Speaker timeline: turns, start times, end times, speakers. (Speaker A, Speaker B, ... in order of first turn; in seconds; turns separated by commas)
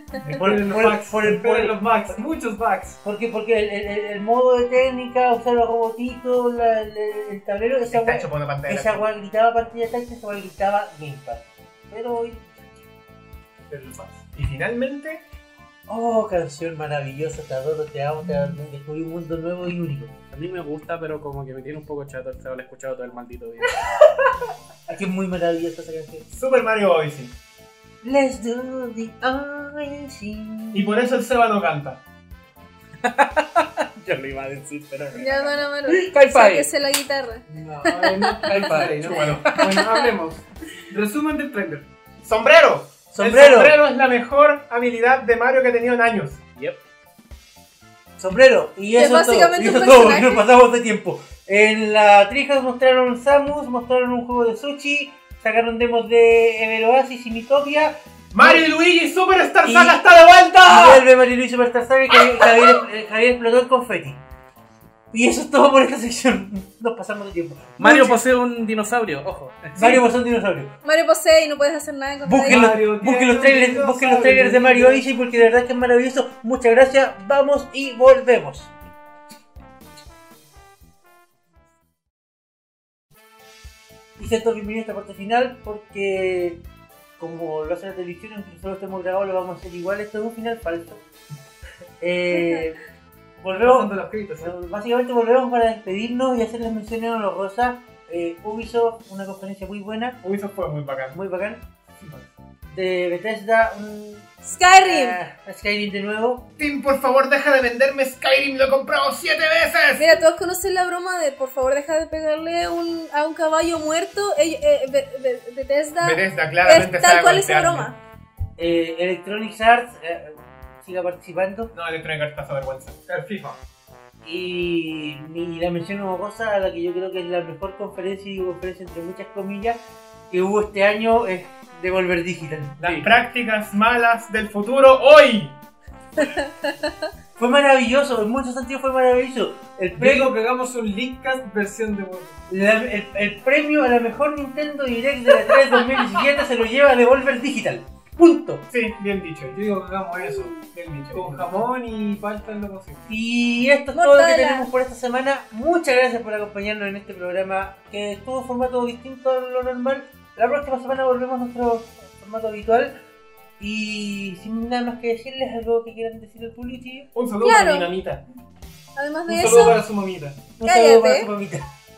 Speaker A: 0.2-2.2, Speaker B: 0.3-3.0, Speaker A: 3.0-12.5, Speaker C: 7.9-9.1, Speaker D: 13.7-14.2, Speaker C: 14.3-15.2, Speaker A: 15.9-20.1, Speaker D: 20.3-23.9, Speaker A: 24.9-26.2, Speaker C: 26.3-27.3, Speaker A: 28.0-31.1, Speaker C: 30.7-32.0, Speaker D: 33.0-36.7, Speaker E: 35.1-38.8, Speaker B: 37.5-41.9, Speaker D: 38.4-39.8, Speaker C: 39.0-39.6, Speaker E: 39.6-40.1, Speaker C: 42.2-46.4, Speaker A: 43.1-43.8, Speaker A: 48.2-58.6, Speaker E: 48.9-50.4, Speaker C: 58.3-61.0, Speaker A: 59.6-60.0, Speaker A: 60.6-64.2, Speaker A: 65.1-68.2, Speaker D: 67.8-70.0, Speaker A: 69.7-70.7, Speaker E: 70.8-72.7, Speaker A: 72.2-78.7, Speaker B: 72.5-75.0, Speaker A: 84.2-86.6, Speaker A: 87.2-91.0, Speaker A: 92.0-92.8, Speaker A: 93.4-100.2, Speaker B: 93.5-94.5, Speaker C: 100.2-101.2, Speaker A: 101.1-101.6, Speaker C: 102.0-102.3, Speaker A: 102.7-106.5, Speaker E: 104.5-105.2, Speaker C: 106.6-110.2, Speaker E: 110.0-118.0, Speaker C: 116.0-117.9, Speaker A: 118.6-121.7, Speaker C: 121.7-123.0, Speaker B: 123.1-123.6, Speaker A: 124.2-132.8, Speaker C: 132.8-135.6, Speaker D: 132.8-133.1, Speaker E: 136.2-136.7, Speaker A: 137.4-140.3, Speaker B: 140.0-142.4, Speaker A: 142.5-148.6, Speaker C: 148.7-149.6, Speaker B: 149.5-153.1, Speaker C: 150.7-151.5, Speaker A: 153.1-163.0, Speaker E: 153.9-154.7, Speaker A: 163.6-167.1, Speaker C: 167.1-168.2, Speaker E: 167.4-167.9, Speaker E: 168.9-169.8, Speaker B: 169.3-170.4, Speaker A: 170.6-171.7, Speaker E: 170.6-171.3